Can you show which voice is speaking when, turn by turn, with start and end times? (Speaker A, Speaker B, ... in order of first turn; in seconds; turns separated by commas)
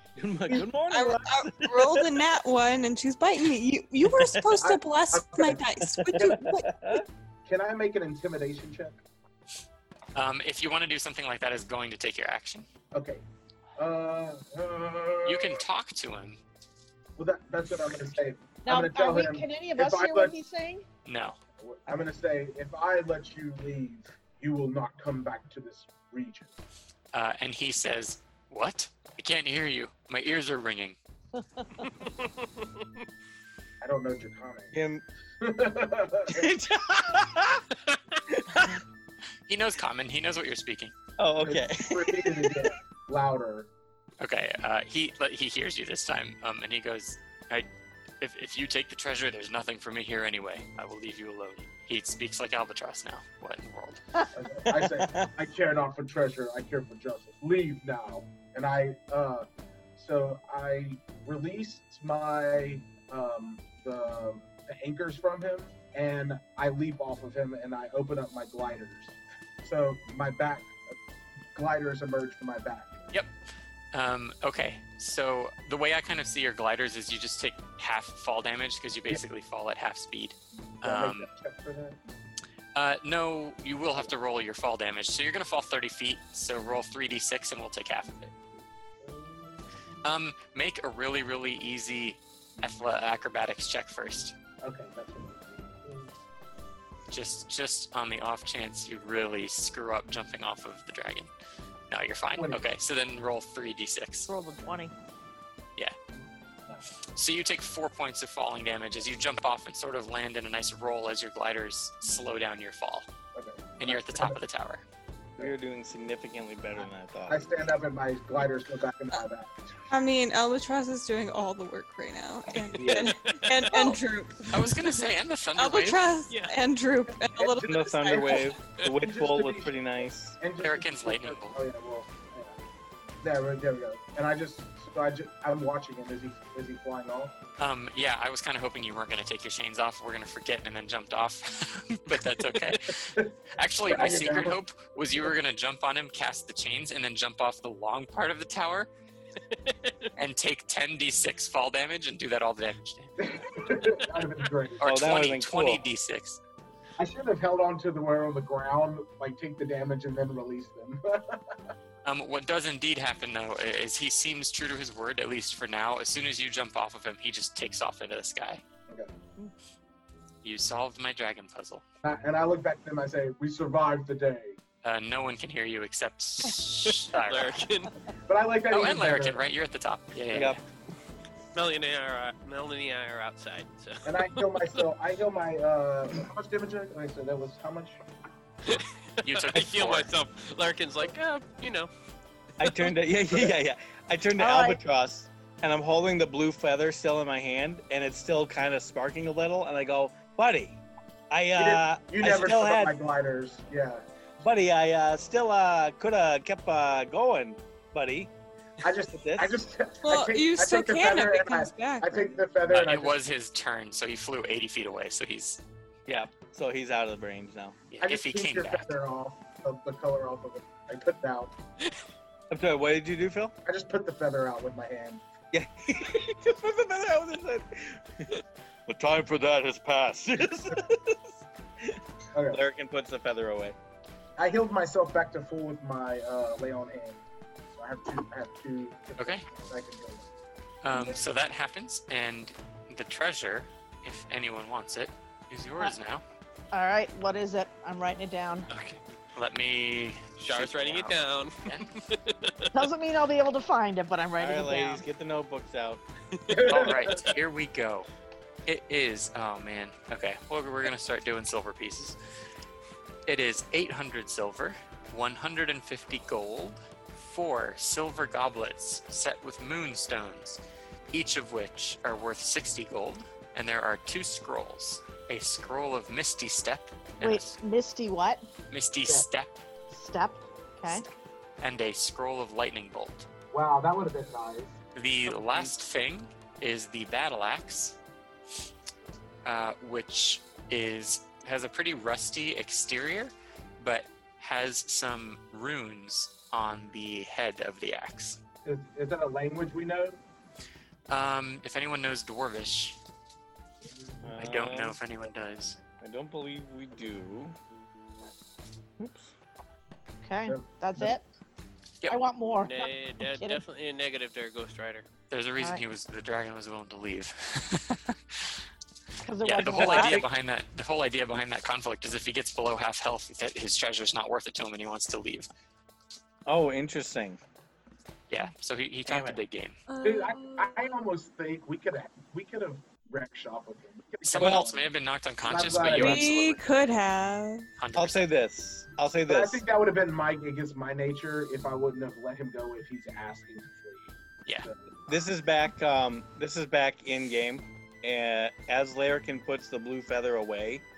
Speaker A: 0.1-2.2, Speaker B: 0.9-6.8, Speaker A: 4.0-4.6, Speaker C: 4.6-6.4, Speaker A: 5.8-7.0, Speaker C: 7.4-9.0, Speaker D: 10.1-12.7, Speaker C: 12.9-13.2, Speaker C: 13.8-15.6, Speaker D: 15.2-16.4, Speaker C: 17.2-20.3, Speaker E: 18.6-20.8, Speaker D: 21.1-21.4, Speaker C: 21.6-26.5, Speaker D: 27.1-31.0, Speaker F: 32.0-33.0, Speaker C: 33.8-34.7, Speaker A: 34.7-35.0, Speaker C: 35.4-36.5, Speaker A: 36.3-37.6, Speaker A: 38.3-38.8, Speaker D: 39.5-40.9, Speaker A: 41.2-42.8, Speaker C: 41.4-43.7, Speaker D: 44.2-47.7, Speaker D: 48.2-54.0, Speaker C: 54.3-71.0, Speaker A: 54.6-55.3, Speaker C: 71.5-72.9, Speaker D: 73.9-81.3, Speaker C: 80.8-82.0, Speaker D: 82.7-88.3, Speaker C: 89.0-89.7, Speaker D: 90.0-94.3, Speaker C: 94.6-96.1, Speaker D: 97.1-101.3, Speaker D: 101.9-104.3, Speaker C: 102.4-102.7, Speaker E: 104.3-104.9, Speaker D: 107.1-113.1, Speaker C: 113.3-114.4, Speaker D: 113.8-114.8, Speaker A: 115.4-117.7, Speaker C: 117.3-119.9, Speaker B: 119.9-125.0, Speaker F: 122.7-123.8, Speaker A: 122.8-123.1, Speaker D: 123.7-124.0, Speaker D: 124.5-126.0, Speaker B: 125.6-128.6, Speaker F: 126.3-126.5, Speaker C: 127.3-132.6, Speaker A: 127.6-130.4, Speaker D: 130.6-131.6, Speaker C: 133.2-137.3, Speaker D: 137.6-148.9, Speaker C: 143.8-144.6, Speaker F: 149.5-150.1, Speaker D: 150.2-153.1, Speaker C: 153.2-154.9, Speaker D: 154.8-156.4, Speaker A: 154.8-155.8, Speaker C: 157.0-161.7, Speaker D: 162.0-168.6, Speaker D: 170.4-171.8, Speaker C: 172.0-174.6, Speaker D: 174.8-177.7, Speaker F: 176.8-178.0, Speaker C: 178.3-179.4, Speaker D: 178.7-180.6, Speaker A: 180.3-180.6, Speaker F: 181.5-184.8, Speaker C: 184.0-188.0, Speaker F: 188.6-191.9, Speaker D: 189.2-190.1, Speaker A: 192.6-203.0, Speaker E: 194.4-194.8, Speaker C: 201.5-204.0, Speaker A: 204.4-208.3, Speaker C: 208.8-213.2, Speaker A: 209.1-209.7, Speaker B: 210.0-212.4, Speaker D: 212.7-215.6, Speaker A: 216.1-217.8, Speaker D: 217.9-218.9, Speaker C: 218.0-221.5, Speaker A: 222.5-223.5, Speaker C: 223.6-225.2, Speaker A: 225.5-233.8, Speaker C: 232.3-232.6, Speaker C: 234.4-237.2, Speaker C: 237.8-240.3, Speaker D: 239.2-239.4, Speaker D: 240.8-246.2, Speaker E: 246.7-248.7, Speaker D: 248.7-251.9, Speaker F: 250.4-252.7, Speaker E: 252.7-255.0, Speaker A: 254.4-256.0, Speaker F: 256.3-256.7, Speaker C: 256.5-257.3, Speaker D: 256.6-258.1, Speaker D: 258.6-262.2, Speaker D: 263.2-277.6, Speaker E: 277.2-278.4, Speaker D: 278.7-279.6, Speaker E: 279.9-281.0, Speaker D: 281.6-283.3, Speaker C: 283.5-284.8, Speaker D: 284.9-288.0, Speaker D: 289.4-298.4, Speaker C: 298.6-300.2, Speaker D: 301.1-303.0, Speaker A: 304.2-305.0, Speaker D: 304.3-305.8, Speaker A: 306.0-307.6, Speaker A: 309.0-309.3, Speaker E: 310.2-311.2, Speaker C: 310.5-311.1, Speaker E: 312.1-313.6, Speaker F: 312.6-315.1, Speaker D: 315.3-318.6, Speaker E: 319.2-320.2, Speaker D: 319.4-325.5, Speaker A: 326.4-327.4, Speaker D: 328.3-329.8, Speaker A: 329.1-329.4, Speaker B: 329.9-330.9, Speaker C: 330.0-334.9, Speaker D: 334.2-336.8, Speaker A: 334.4-334.7, Speaker C: 335.4-336.4, Speaker B: 335.9-337.6, Speaker D: 337.8-338.3, Speaker A: 337.9-339.6, Speaker C: 339.3-344.8, Speaker A: 345.1-350.8